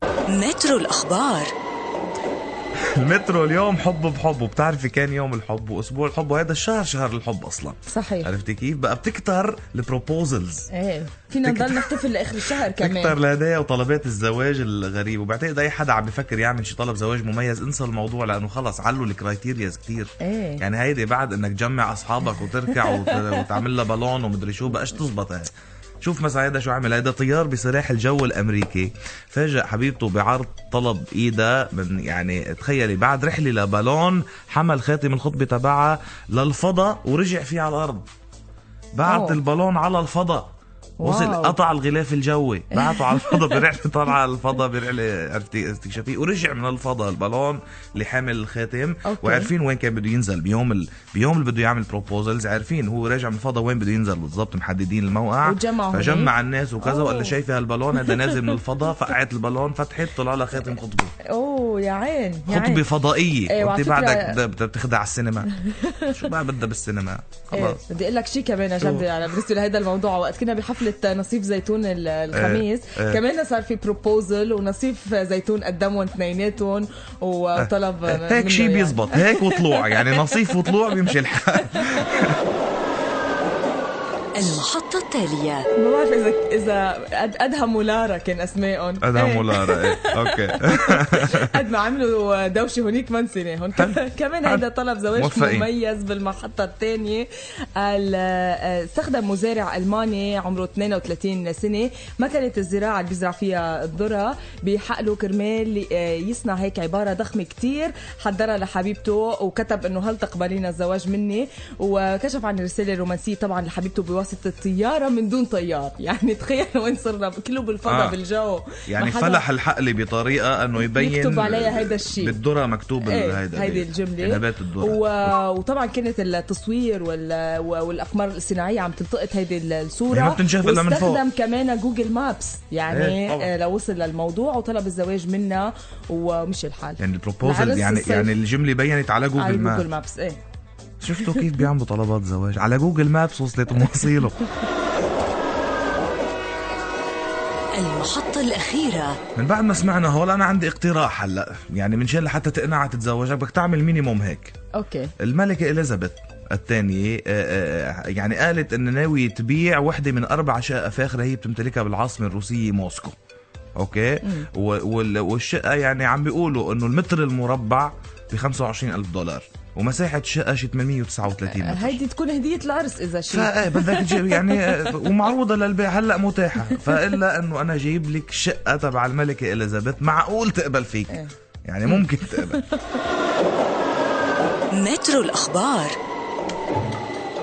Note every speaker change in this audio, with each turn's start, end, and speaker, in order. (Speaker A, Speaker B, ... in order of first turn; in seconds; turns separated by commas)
Speaker A: 0.3-1.5, Speaker B: 2.9-10.7, Speaker C: 7.9-8.3, Speaker C: 10.7-13.2, Speaker B: 11.4-38.1, Speaker C: 20.2-20.6, Speaker C: 22.7-23.5, Speaker B: 39.0-40.5, Speaker C: 39.1-39.4, Speaker C: 41.0-41.6, Speaker B: 41.0-61.1, Speaker C: 42.7-43.7, Speaker C: 49.0-49.5, Speaker C: 55.4-57.4, Speaker C: 58.0-58.6, Speaker C: 61.2-62.8, Speaker B: 62.5-65.5, Speaker C: 63.5-64.4, Speaker C: 65.5-66.3, Speaker B: 66.0-67.8, Speaker C: 67.5-82.1, Speaker B: 68.8-69.1, Speaker B: 72.3-73.2, Speaker B: 77.6-82.4, Speaker A: 84.3-85.7, Speaker C: 85.7-119.4, Speaker B: 89.0-91.6, Speaker B: 93.8-94.6, Speaker B: 95.2-95.7, Speaker B: 117.8-118.2, Speaker B: 118.9-125.3, Speaker C: 120.8-122.4, Speaker C: 123.0-138.3, Speaker B: 130.1-131.2, Speaker B: 132.9-133.5, Speaker B: 137.0-139.9, Speaker C: 139.4-140.4, Speaker B: 141.0-144.4, Speaker A: 147.8-149.2, Speaker B: 149.3-154.5, Speaker C: 154.8-155.1, Speaker B: 155.2-163.2, Speaker B: 163.8-172.0, Speaker C: 164.2-164.5, Speaker C: 171.5-175.1, Speaker B: 173.3-182.6, Speaker C: 181.9-183.0, Speaker A: 184.7-186.0